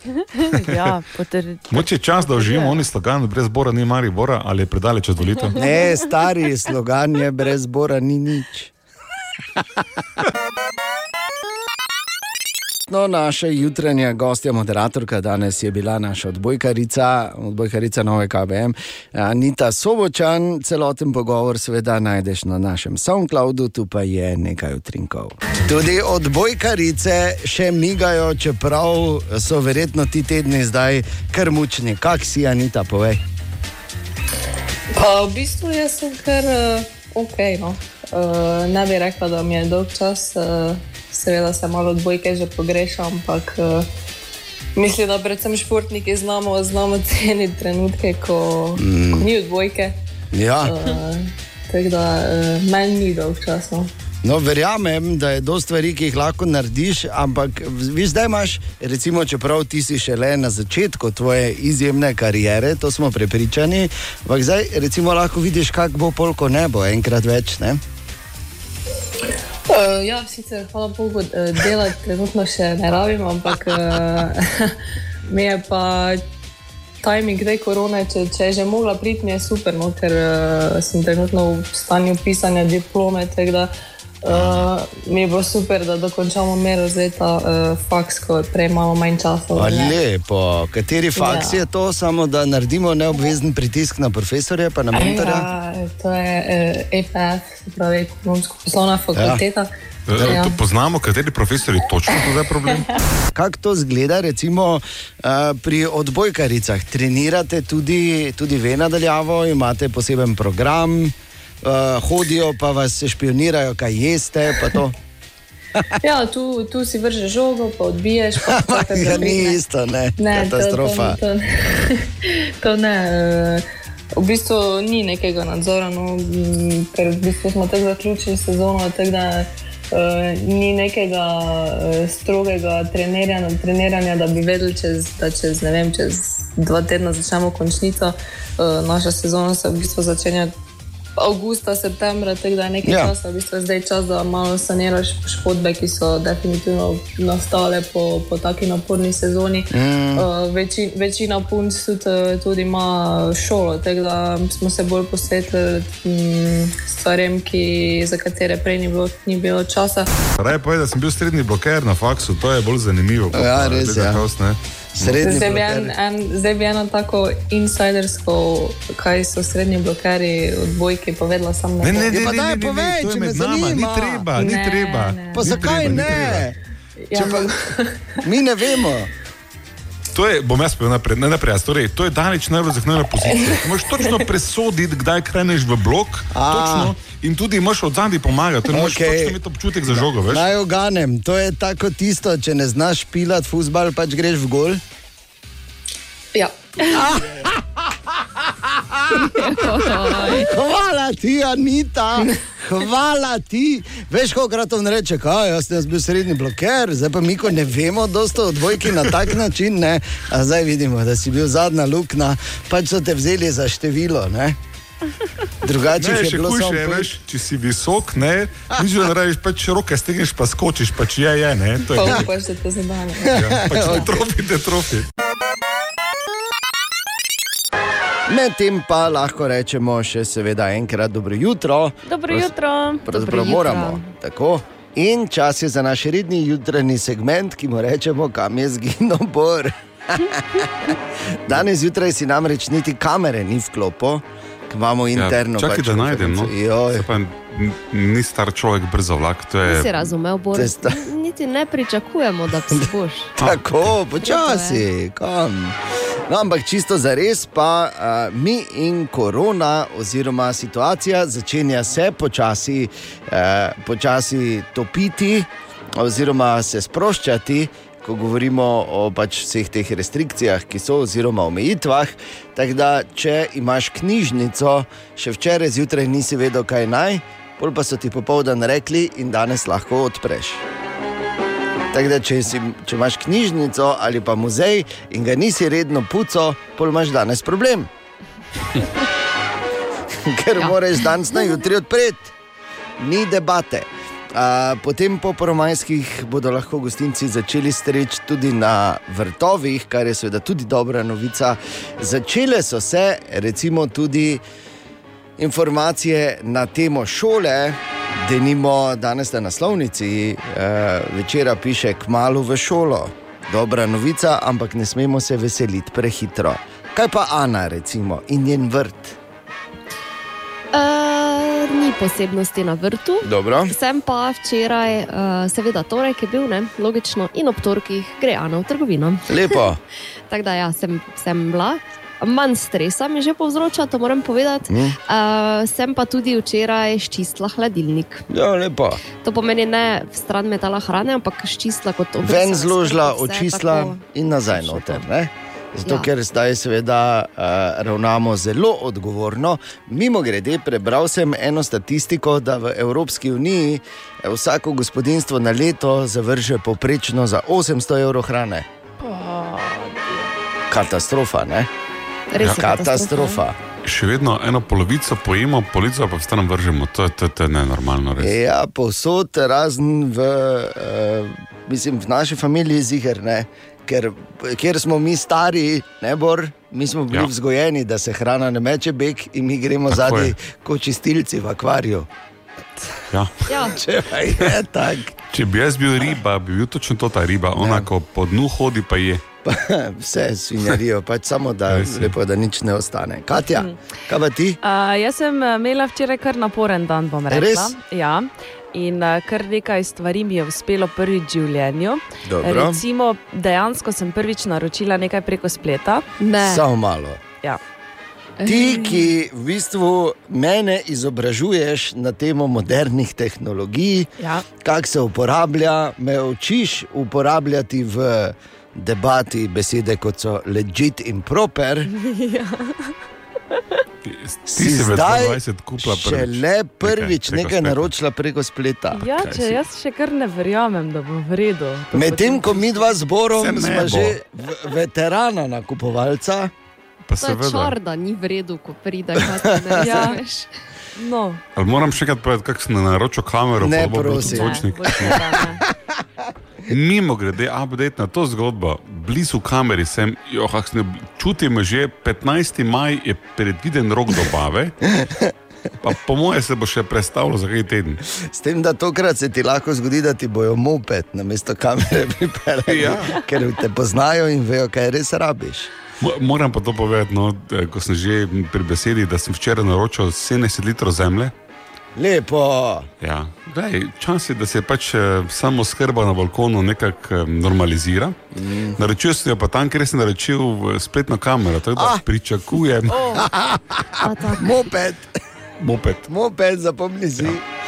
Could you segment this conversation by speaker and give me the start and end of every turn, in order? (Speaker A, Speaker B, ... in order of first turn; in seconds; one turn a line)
Speaker A: 0.3-2.8
Speaker B: 1.7-5.6
Speaker C: 5.5-8.7
Speaker C: 12.9-33.2
Speaker D: 34.9-43.9
Speaker D: 44.8-50.0
Speaker C: 48.8-49.3
Speaker C: 50.3-50.8
Speaker D: 50.6-53.9
Speaker C: 54.2-67.8
Speaker D: 69.7-74.8
Speaker D: 75.3-76.2
Speaker D: 77.0-83.7
Speaker D: 84.2-90.0
Speaker C: 89.5-95.5
Speaker D: 91.2-91.6
Speaker D: 94.9-100.5
Speaker C: 99.2-99.4
Speaker B: 100.1-103.0
Speaker C: 103.3-115.0
Speaker D: 116.0-119.6
Speaker C: 118.5-121.2
Speaker D: 120.2-123.7
Speaker D: 124.2-140.5
Speaker D: 141.2-160.1
Speaker C: 142.8-143.1
Speaker C: 149.7-150.2
Speaker B: 160.3-165.4
Speaker C: 163.3-164.2
Speaker C: 165.0-165.9
Speaker D: 165.2-172.2
Speaker B: 171.8-176.5
Speaker C: 172.1-174.3
Speaker D: 174.4-175.9
Speaker C: 175.3-176.6
Speaker D: 177.1-178.2
Speaker C: 177.1-177.5
Speaker C: 178.2-179.1
Speaker B: 180.1-190.4
Speaker D: 183.3-184.2
Speaker C: 186.3-186.9
Speaker C: 188.7-189.4
Speaker C: 190.2-194.8
Speaker D: 196.3-197.2
Speaker C: 196.9-197.6
Speaker C: 198.6-199.5
Speaker E: 199.1-200.5
Speaker C: 200.1-214.6
Speaker C: 215.6-217.1
Speaker B: 215.9-222.3
Speaker D: 221.9-223.4
Speaker B: 223.3-225.1
Speaker C: 223.3-224.1
Speaker C: 228.3-232.4
Speaker A: 232.0-234.0
Speaker C: 233.1-247.1
Speaker B: 245.2-250.1
Speaker E: 249.6-253.3
Speaker C: 250.5-251.0
Speaker C: 253.4-255.8
Speaker E: 254.2-254.8
Speaker C: 256.3-280.6
Speaker C: 281.9-287.9
Speaker C: 290.2-292.3
Speaker C: 293.0-304.4
Speaker C: 305.4-319.2
Speaker E: 320.7-329.7
Speaker C: 323.2-323.7
Speaker C: 329.3-329.8
Speaker E: 330.3-338.3
Speaker C: 334.7-335.0
Speaker C: 338.3-339.0
Speaker E: 339.1-345.0
Speaker C: 342.2-358.7
Speaker E: 345.8-346.1
Speaker A: 359.0-360.0
Speaker C: 360.7-361.7
Speaker E: 362.3-363.4
Speaker C: 362.4-363.6
Speaker B: 363.8-368.3
Speaker C: 368.2-382.1
Speaker B: 379.9-380.3
Speaker B: 383.1-383.5
Speaker E: 383.5-383.8
Speaker C: 383.5-385.1
Speaker B: 385.3-389.2
Speaker C: 387.5-387.9
Speaker C: 389.4-394.6
Speaker B: 391.7-392.1
Speaker A: 394.6-406.1
Speaker C: 397.3-397.7
Speaker C: 402.2-402.8
Speaker E: 406.2-406.6
Speaker C: 406.4-407.2
Speaker A: 408.4-409.0
Speaker C: 408.4-414.1
Speaker C: 414.6-421.9
Speaker A: 421.9-422.9
Speaker B: 424.0-427.9
Speaker C: 424.5-429.1
Speaker A: 428.9-432.9
Speaker B: 429.2-429.6
Speaker C: 431.9-436.5
Speaker B: 433.4-434.2
Speaker B: 437.1-437.8
Speaker E: 437.2-440.5
Speaker A: 439.8-440.2
Speaker A: 441.0-441.4
Speaker B: 441.6-445.4
Speaker C: 443.6-444.6
Speaker A: 444.2-445.6
Speaker B: 446.7-454.8
Speaker C: 454.9-455.3
Speaker B: 455.8-458.0
Speaker C: 458.1-465.7
Speaker B: 462.7-463.1
Speaker B: 466.0-471.3
Speaker C: 472.0-472.9
Speaker B: 473.0-478.2
Speaker C: 478.3-478.8
Speaker B: 478.8-483.1
Speaker C: 481.8-482.0
Speaker A: 482.9-483.2
Speaker C: 483.1-485.1
Speaker E: 484.0-484.6
Speaker B: 485.6-486.1
Speaker C: 486.1-487.4